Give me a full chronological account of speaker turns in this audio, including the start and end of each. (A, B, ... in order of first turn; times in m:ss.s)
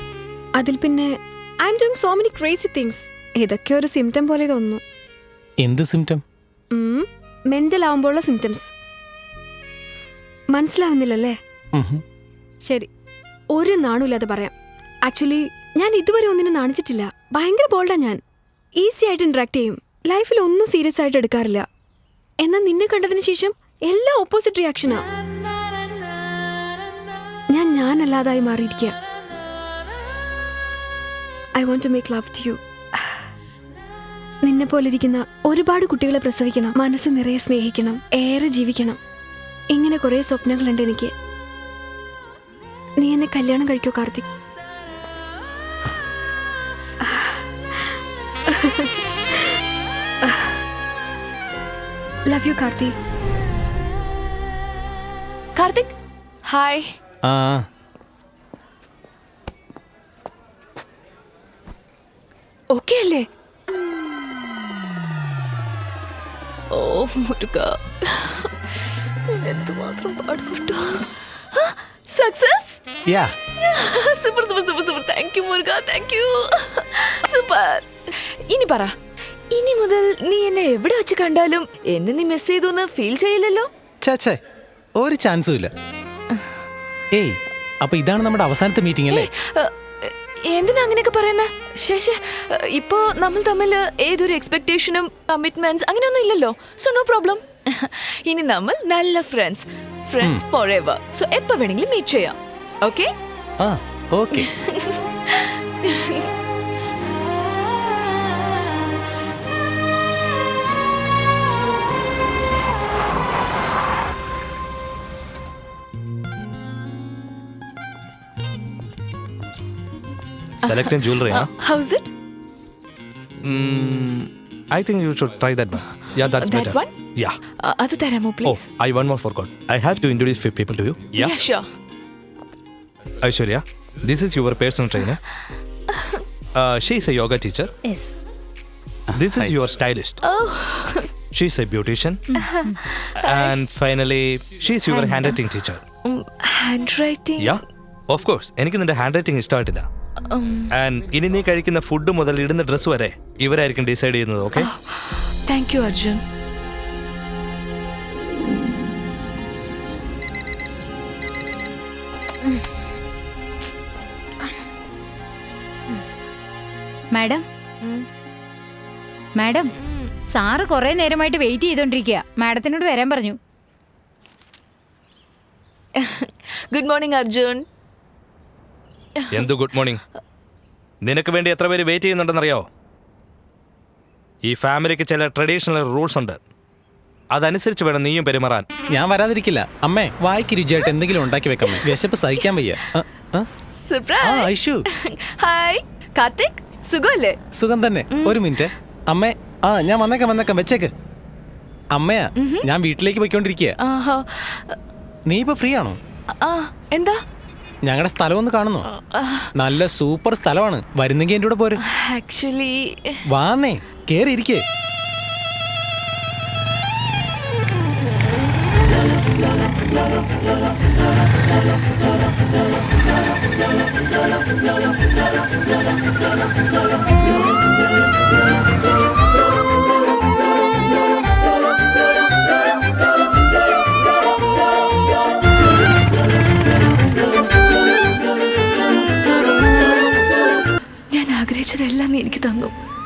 0:00.6-0:04.8 A
0:05.6-0:06.2 B
0:06.7-0:08.7 A
0:10.5-0:11.4 A
0:11.7-0:12.0 B
0:13.5-0:14.5 A
0:15.0-0:18.2 A
0:18.8-0:21.7 A
0:22.4-0:25.0 A
0:27.5-0:29.0 A
0:31.6-0:33.2 A
0:34.4-0:39.0 A
0:39.7-0:41.1 A
0:43.0-0:44.3 A
0:47.1-0:47.4 A
0:48.5-0:48.9 A
0:52.3-0:52.9 A
0:55.6-0:55.9 C
0:56.5-0:56.8 C
0:57.2-0:57.7 B
1:02.7-1:03.2 C
1:06.7-1:08.5 C
1:09.3-1:12.8 C
1:13.1-1:13.3 B
1:13.6-1:18.9 C
1:19.5-1:23.7 C
1:24.0-1:24.4 B
1:25.0-1:25.7 B
1:27.1-1:29.3 B
1:29.1-1:43.1 C
1:43.6-1:44.5 B
1:44.4-1:46.3 C
2:00.6-2:01.5 D
2:00.6-2:02.1 C
2:03.4-2:07.4 D
2:06.4-2:06.9 C
2:07.6-2:08.7 C
2:08.4-2:11.3 D
2:11.2-2:11.6 C
2:13.2-2:15.2 D
2:16.0-2:16.2 C
2:16.6-2:17.7 D
2:17.8-2:18.1 E
2:19.2-2:20.2 D
2:20.2-2:21.1 C
2:21.3-2:22.2 D
2:22.3-2:22.8 E
2:22.4-2:23.5 C
2:23.2-2:25.8 D
2:24.9-2:25.4 C
2:26.0-2:27.6 C
2:27.4-2:29.9 D
2:30.3-2:30.7 C
2:30.7-2:34.7 D
2:34.6-2:36.2 C
2:47.1-2:47.4 E
2:49.4-2:49.7 E
2:49.8-2:50.1 C
2:50.3-2:53.4 E
2:56.0-2:57.6 C
2:59.3-3:00.0 D
3:01.0-3:02.7 D
3:04.4-3:06.4 D
3:07.3-3:08.7 D
3:08.9-3:13.5 B
3:13.8-3:17.4 C
3:14.2-3:14.8 B
3:17.6-3:20.9 B
3:18.1-3:18.5 C
3:21.9-3:23.8 B
3:22.4-3:22.7 C
3:23.8-3:24.8 C
3:25.3-3:26.0 B
3:26.4-3:27.2 C
3:27.8-3:28.9 B
3:28.9-3:29.5 C
3:29.6-3:31.8 B
3:31.8-3:33.2 C
3:33.3-3:34.6 B
4:01.1-4:02.8 C